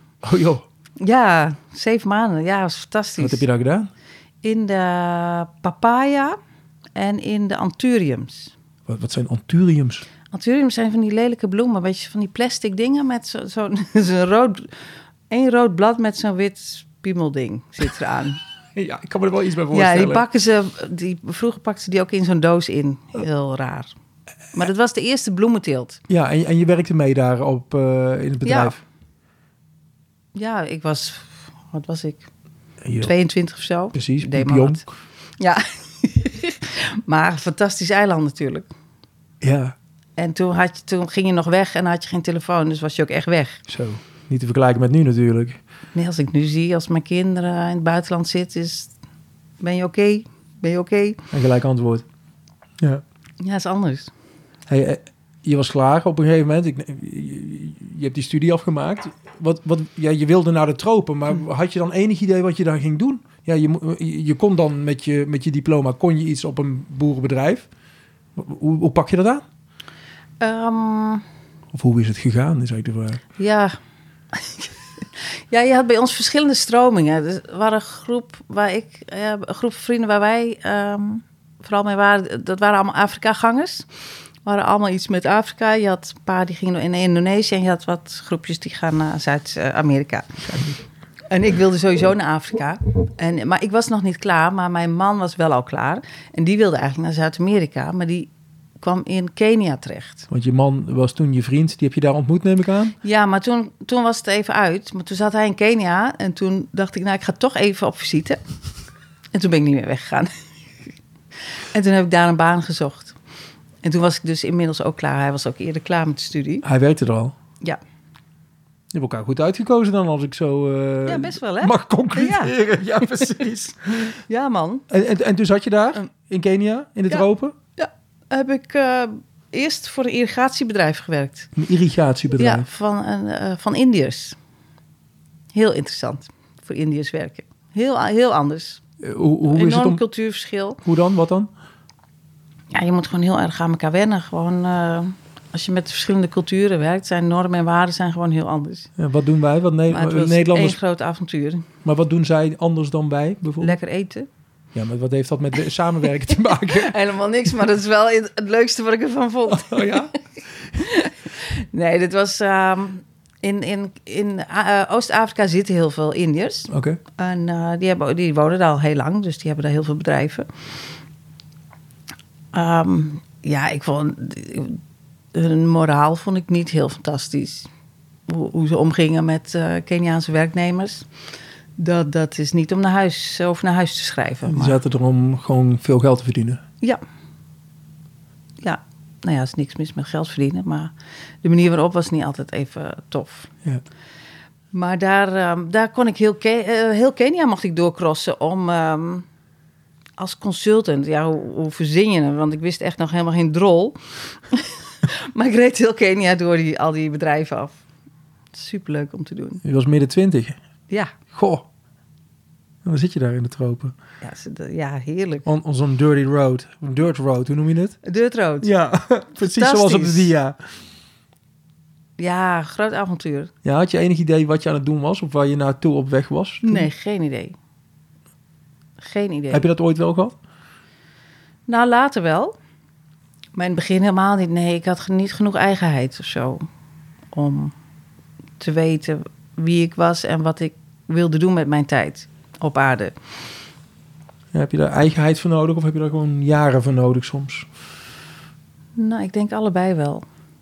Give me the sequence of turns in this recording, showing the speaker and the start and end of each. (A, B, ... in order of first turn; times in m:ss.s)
0:00.2-0:00.6 A
0:01.0-0:03.4 B
0:03.2-0:03.9 A
0:04.4-0:06.4 B
0:07.0-0:08.5 B
0:08.9-0:10.0 A
0:10.3-0:14.7 B
0:15.3-0:18.4 B
0:18.8-0:20.2 A
0:19.7-0:23.9 B
0:24.5-0:26.0 B
0:26.1-0:28.8 A
0:28.4-0:28.8 B
0:30.4-0:32.3 B
0:32.8-0:33.1 A
0:33.0-0:34.8 B
0:33.9-0:34.9 A
0:35.4-0:38.7 B
0:39.4-0:39.8 A
0:40.2-0:43.6 B
0:43.7-0:45.6 A
0:46.0-0:48.9 B
0:49.6-0:51.2 B
0:51.3-0:52.0 A
0:53.4-0:54.1 B
0:54.7-1:07.7 A
1:08.4-1:09.4 A
1:10.4-1:11.2 B
1:11.7-1:13.2 A
1:13.4-1:13.8 B
1:14.3-1:23.9 B
1:24.4-1:30.4 B
1:30.4-1:30.8 A
1:31.3-1:38.3 B
1:38.8-1:40.3 B
1:40.3-1:43.0 A
1:43.0-1:48.4 B
1:49.3-1:50.3 B
1:51.7-1:53.2 B
1:53.8-1:56.6 B
1:56.6-1:57.4 A
1:58.9-2:04.2 A
2:01.1-2:02.5 B
2:04.2-2:04.8 B
2:04.9-2:07.6 A
2:07.8-2:11.5 B
2:11.6-2:12.7 A
2:12.4-2:14.4 B
2:15.5-2:18.8 B
2:19.0-2:20.0 A
2:19.5-2:20.8 B
2:20.8-2:21.5 A
2:22.7-2:28.9 B
2:29.0-2:30.8 A
2:29.9-2:31.7 B
2:31.8-2:33.8 A
2:33.6-2:34.3 B
2:34.7-2:37.0 A
2:36.6-2:40.1 B
2:39.5-2:40.1 A
2:40.7-2:50.5 B
2:46.7-2:47.0 A
2:52.5-2:54.8 B
2:55.3-2:57.7 B
2:58.3-3:01.1 B
3:01.8-3:04.8 B
3:04.5-3:06.6 A
3:08.6-3:10.9 B
3:11.4-3:13.5 B
3:14.7-3:19.3 B
3:20.2-3:24.0 B
3:24.5-3:27.8 B
3:28.5-3:29.6 B
3:29.6-3:30.6 A
3:31.3-3:31.7 A
3:32.8-3:34.0 A
3:34.2-3:35.5 B
3:35.4-3:38.0 A
3:38.0-3:38.7 B
3:38.6-3:40.6 A
3:39.4-3:40.3 B
3:42.2-3:43.5 B
3:43.6-3:46.9 A
3:46.6-3:47.5 B
3:49.0-3:49.6 B
3:49.5-3:50.4 A
3:51.7-3:52.5 B
3:53.6-3:56.6 B
3:57.3-3:57.7 B
3:58.6-4:03.1 B
4:04.5-4:07.7 A
4:09.0-4:10.2 B